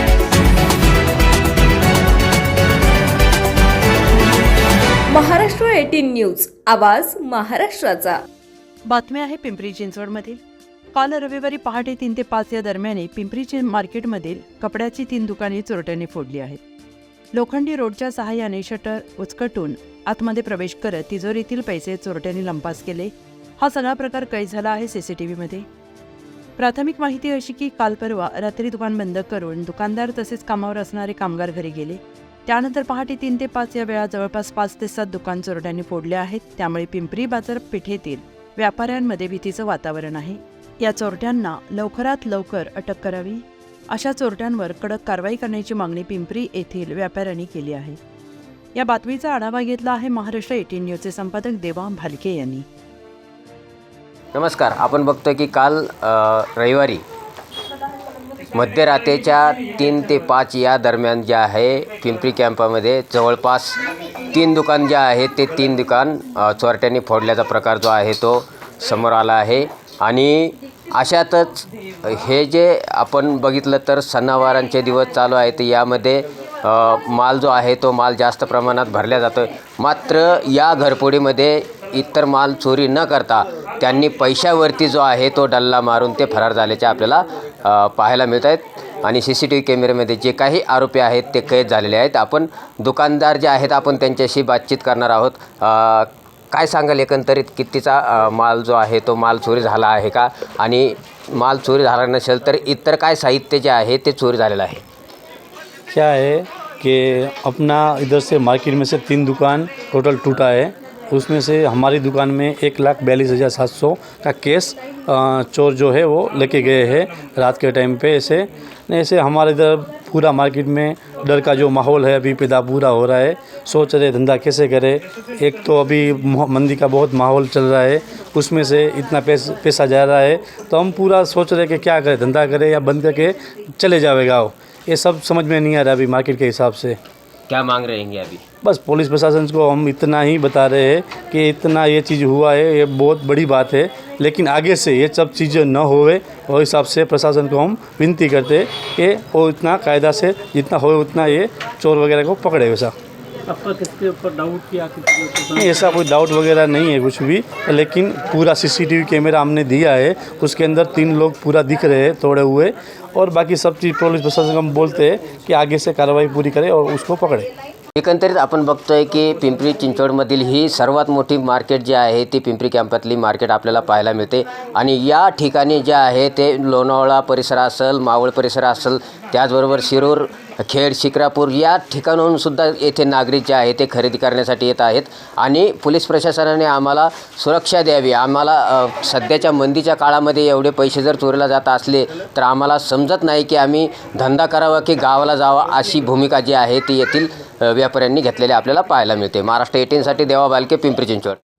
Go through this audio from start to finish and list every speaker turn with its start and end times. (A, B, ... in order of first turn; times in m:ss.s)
0:05.1-0:08.2 A
0:08.9-0:10.4 B
0:10.9-0:16.6 B
0:17.3-0:25.6 B
0:26.6-0:48.0 B
0:48.7-0:52.6 B
0:54.3-0:57.0 C
0:58.5-1:03.8 C
1:04.3-1:44.8 C
1:45.9-2:17.0 D
2:17.5-2:18.4 C
2:18.6-2:32.9 D
2:33.5-2:35.6 E
2:35.6-2:47.5 D
2:48.0-3:21.4 C